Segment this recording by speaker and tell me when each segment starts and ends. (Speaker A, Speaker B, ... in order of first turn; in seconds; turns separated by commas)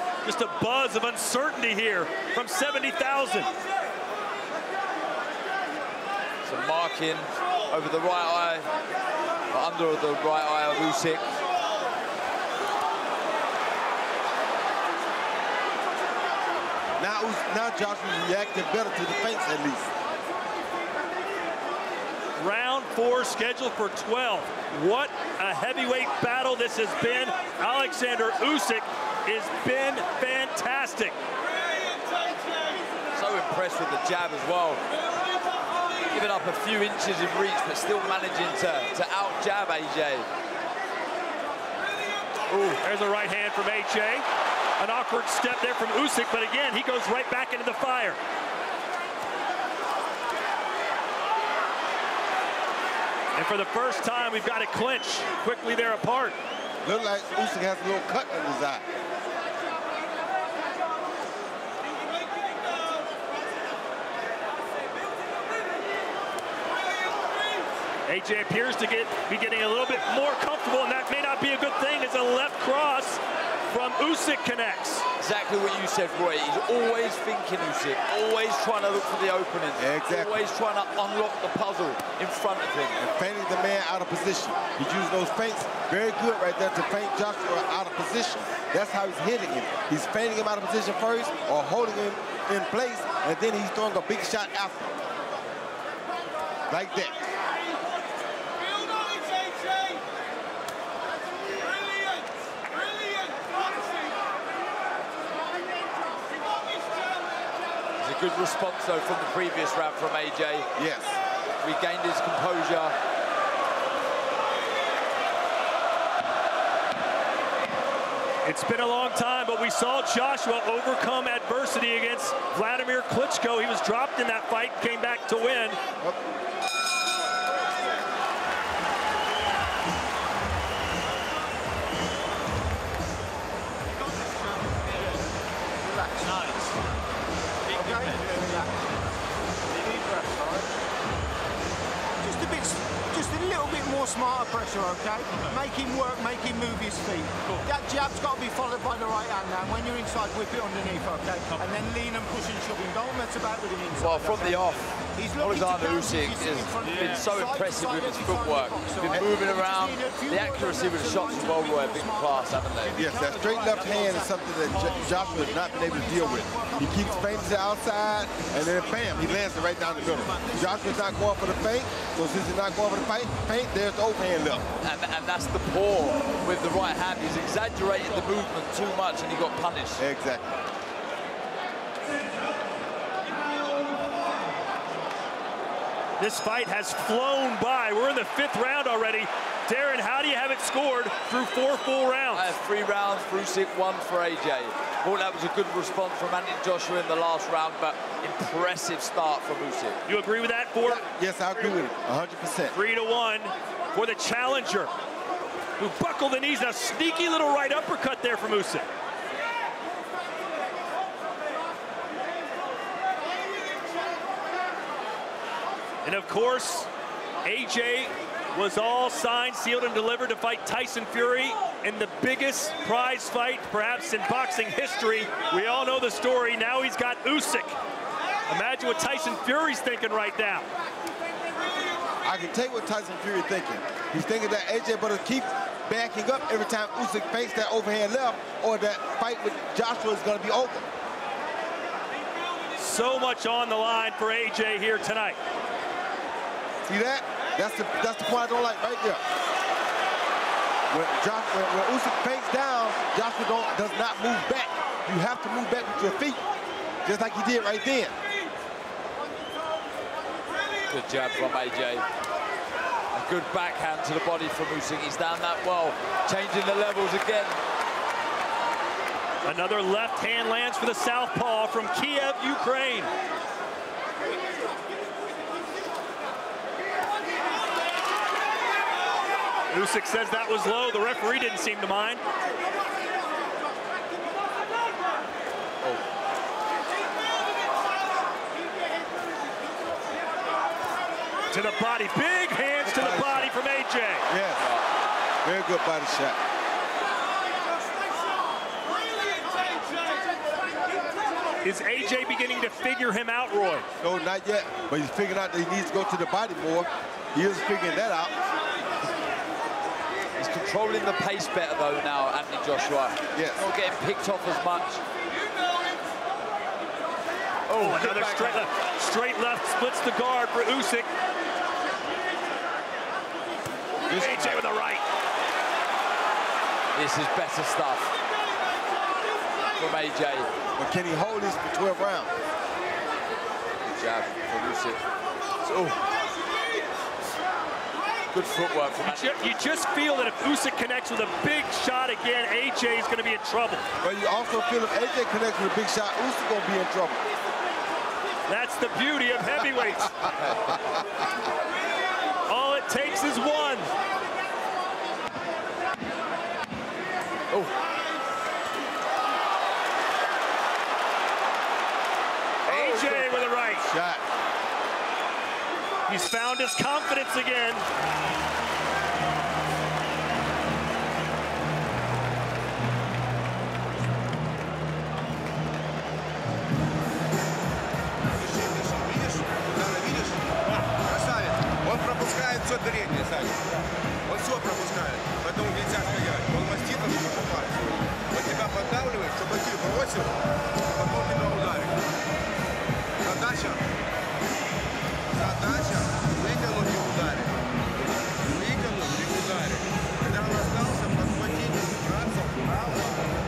Speaker A: 0.2-3.5, Speaker B: 6.4-8.7, Speaker B: 9.5-11.2, Speaker C: 17.0-19.9, Speaker A: 22.4-31.1, Speaker B: 33.1-34.8, Speaker B: 36.1-40.3, Speaker A: 42.5-44.2, Speaker A: 44.8-48.2, Speaker A: 53.4-56.4, Speaker C: 56.8-58.9, Speaker A: 68.1-75.0, Speaker B: 75.2-83.0, Speaker C: 79.8-80.3, Speaker C: 83.0-94.9, Speaker C: 96.7-97.3, Speaker B: 108.0-110.7, Speaker C: 110.8-111.2, Speaker B: 111.6-112.9, Speaker A: 118.5-125.8, Speaker D: 135.8-136.7, Speaker D: 137.7-138.9, Speaker D: 139.7-140.7, Speaker D: 142.2-167.8, Speaker B: 153.9-163.0, Speaker C: 162.9-174.7, Speaker D: 168.5-171.0, Speaker B: 174.8-180.0, Speaker C: 180.0-180.6, Speaker A: 186.2-192.5, Speaker B: 192.3-200.0, Speaker A: 200.1-201.0, Speaker C: 200.8-202.7, Speaker A: 202.7-204.9, Speaker A: 205.8-208.8, Speaker A: 216.0-216.9, Speaker A: 217.4-227.7, Speaker A: 228.5-230.7, Speaker C: 232.2-240.9, Speaker A: 242.8-245.4, Speaker C: 246.8-249.2, Speaker C: 250.9-256.4, Speaker C: 257.0-258.1, Speaker B: 260.9-262.1, Speaker B: 263.1-267.6, Speaker A: 269.4-273.1, Speaker A: 279.7-282.2, Speaker A: 291.5-294.2, Speaker C: 292.8-293.5, Speaker C: 294.3-294.6, Speaker B: 294.6-294.8, Speaker C: 295.4-296.4, Speaker A: 301.6-303.9, Speaker C: 304.0-308.3, Speaker B: 310.4-315.0, Speaker C: 313.3-313.6, Speaker B: 317.7-318.7, Speaker A: 317.7-321.1, Speaker C: 324.0-324.6, Speaker A: 324.1-325.0, Speaker B: 326.9-328.1, Speaker B: 329.8-330.5, Speaker C: 330.8-332.3, Speaker B: 333.8-335.0, Speaker B: 335.6-336.1, Speaker B: 338.3-339.8, Speaker A: 339.0-343.8, Speaker C: 344.0-347.2, Speaker A: 348.5-350.1, Speaker C: 350.0-351.0, Speaker B: 350.3-350.8, Speaker A: 352.5-353.9, Speaker A: 362.6-363.8, Speaker C: 362.7-364.2, Speaker A: 366.1-367.8, Speaker E: 378.3-383.6, Speaker E: 384.2-390.3, Speaker E: 390.9-392.0, Speaker E: 393.2-393.8, Speaker E: 395.3-403.3